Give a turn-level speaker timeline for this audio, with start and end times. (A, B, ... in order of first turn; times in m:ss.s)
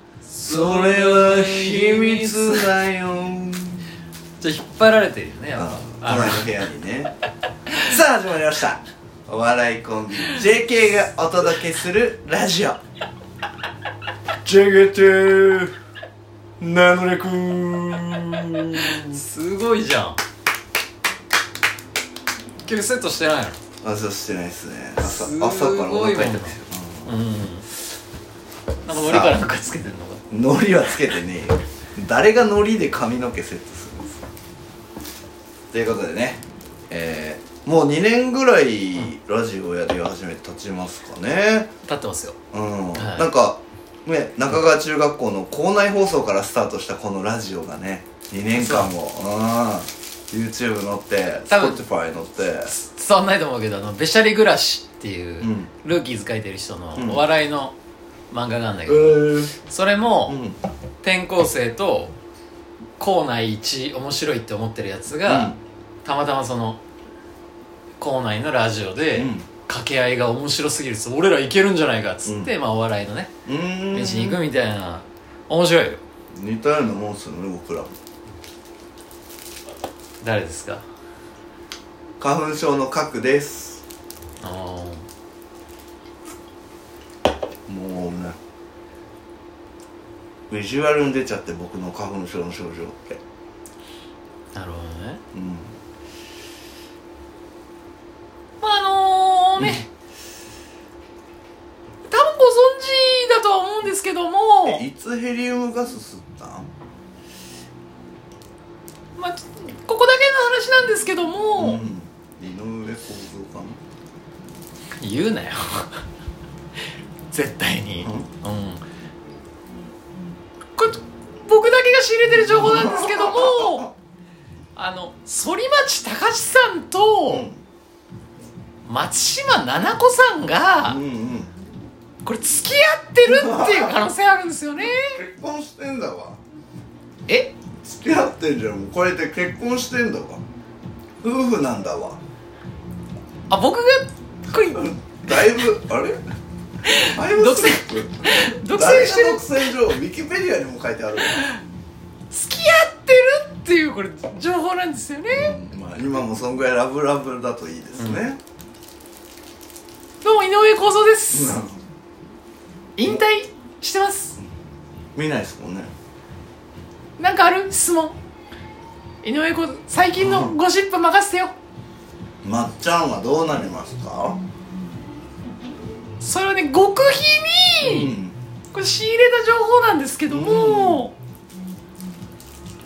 0:00.3-0:02.7 A
0:00.4-0:03.8 B
0:04.4-0:06.6 A
0:05.6-0:07.1 B
0:07.8-0:12.8 B
0:14.4-0:15.7 B
0:16.6-0:19.2 B
0:18.8-0:20.2 A
0:22.6-0:23.6 A
0:23.8-0:27.1 B
0:25.0-0:27.6 A
0:28.9-0:29.4 B
0:28.9-0:30.2 A
0:30.3-0:34.2 B
0:35.7-0:41.7 B
0:41.9-0:42.4 A
0:42.5-0:52.7 B
0:43.0-0:43.3 A
0:48.5-0:48.9 A
0:51.5-0:51.8 A
0:52.7-0:57.7 A
0:55.4-0:55.7 B
0:57.0-0:57.2 B
0:58.3-1:00.4 A
0:58.9-0:59.5 B
1:00.2-1:00.6 B
1:01.0-1:02.1 A
1:03.0-1:06.8 A
1:05.2-1:05.6 B
1:08.0-1:13.3 A
1:09.2-1:09.5 B
1:12.2-1:12.5 B
1:13.4-1:14.4 B
1:13.9-1:16.0 A
1:16.3-1:17.9 B
1:20.2-1:20.8 A
1:22.2-1:23.8 B
1:24.4-1:25.0 A
1:27.7-1:28.4 B
1:30.5-1:33.2 B
1:34.5-1:35.2 A
1:35.3-1:35.7 B
1:38.6-1:39.9 A
1:39.6-1:39.8 B
1:42.1-1:44.8 A
1:44.6-1:46.7 B
1:49.2-1:51.8 A
1:51.6-1:53.8 B
1:55.0-1:56.0 A
1:57.3-1:58.8 A
1:58.0-1:58.3 B
2:00.8-2:03.9 A
2:02.3-2:03.9 B
2:04.8-2:07.5 A
2:07.3-2:07.6 B
2:08.8-2:11.0 A
2:10.8-2:11.5 B
2:12.2-2:15.2 A
2:13.2-2:14.0 B
2:14.9-2:16.4 B
2:17.3-2:17.5 A
2:17.8-2:20.4 B
2:21.2-2:22.2 B
2:23.5-2:25.6 A
2:24.7-2:26.2 B
2:26.8-2:29.7 A
2:27.0-2:31.4 B
2:32.3-2:35.5 A
2:35.3-2:38.4 B
2:38.0-2:38.3 A
2:40.2-2:41.6 A
2:41.3-2:41.8 B
2:43.0-2:44.4 A
2:45.2-2:45.9 B
2:47.2-2:48.2 A
2:49.2-2:51.5 A
2:50.2-2:50.5 B
2:52.4-2:54.4 B
2:56.2-2:58.1 A
2:57.8-2:58.3 B
2:58.7-3:01.1 A
3:00.3-3:01.0 B